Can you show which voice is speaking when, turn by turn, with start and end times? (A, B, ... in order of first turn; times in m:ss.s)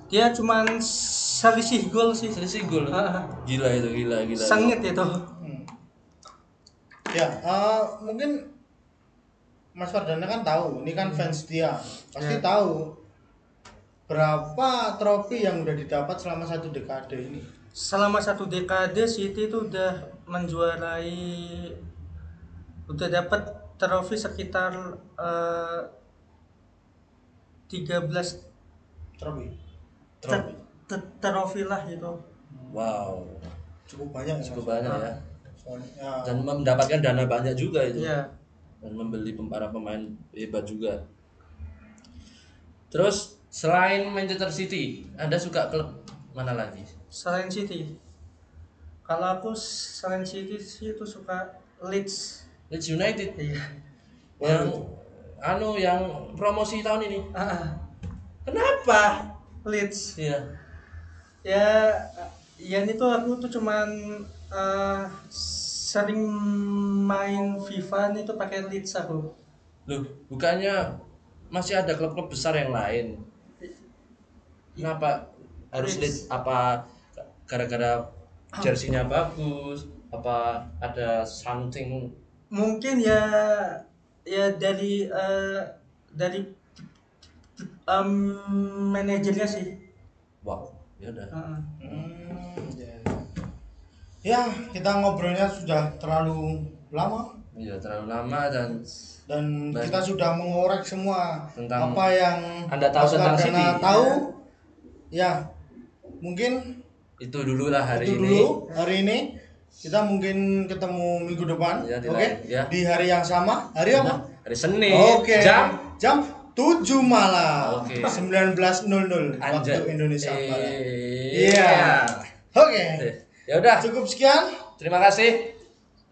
0:00.1-0:03.3 A
0:02.3-0:04.8 B
0:04.4-0:05.2 A
0:05.4-0:05.7 C
0:07.1-0:08.4 C
0:09.8-0:12.9 C
0:11.0-0:11.3 A
0:14.1-0:17.5 C
0:17.8-0:21.8 A
0:22.9-0:25.9 A
0:27.7-0:28.4 A
0:29.2-0:29.5 C
0:30.2-0:30.6 B
0:30.3-0:32.2 A
0:32.5-0:33.0 C
0:32.7-0:33.5 B
0:33.9-0:34.9 C
0:34.4-0:35.2 B
0:34.8-0:35.1 A
0:35.6-0:36.4 C
0:36.2-0:38.1 B
0:38.0-0:38.3 A
0:38.8-0:41.0 B
0:42.9-0:46.9 B
0:47.1-0:47.9 A
0:49.1-0:52.4 A
0:52.7-0:53.4 B
0:53.4-0:53.7 A
0:54.4-0:54.8 C
0:54.4-0:57.3 B
0:57.3-0:57.8 A
0:58.5-0:59.3 B
0:59.6-1:00.2 A
1:00.2-1:00.4 B
1:01.4-1:09.3 A
1:09.9-1:10.8 B
1:11.5-1:13.2 B
1:14.8-1:18.0 B
1:15.8-1:16.2 A
1:18.6-1:22.1 B
1:22.5-1:26.5 A
1:27.6-1:29.7 A
1:30.4-1:32.0 B
1:31.3-1:31.7 A
1:31.8-1:33.3 C
1:34.2-1:37.3 C
1:37.5-1:38.8 B
1:39.3-1:44.4 C
1:39.7-1:40.0 B
1:41.6-1:42.0 B
1:42.7-1:44.0 B
1:43.9-1:44.3 A
1:45.1-1:45.4 C
1:46.2-1:46.8 C
1:47.2-1:48.5 B
1:47.9-1:49.3 C
1:49.8-1:54.2 C
1:51.8-1:52.7 B
1:53.9-1:55.8 B
1:54.9-2:00.8 C
1:57.6-1:58.3 B
1:59.4-2:02.2 B
2:01.3-2:03.1 C
2:03.0-2:03.9 B
2:03.8-2:04.6 C
2:04.8-2:05.6 B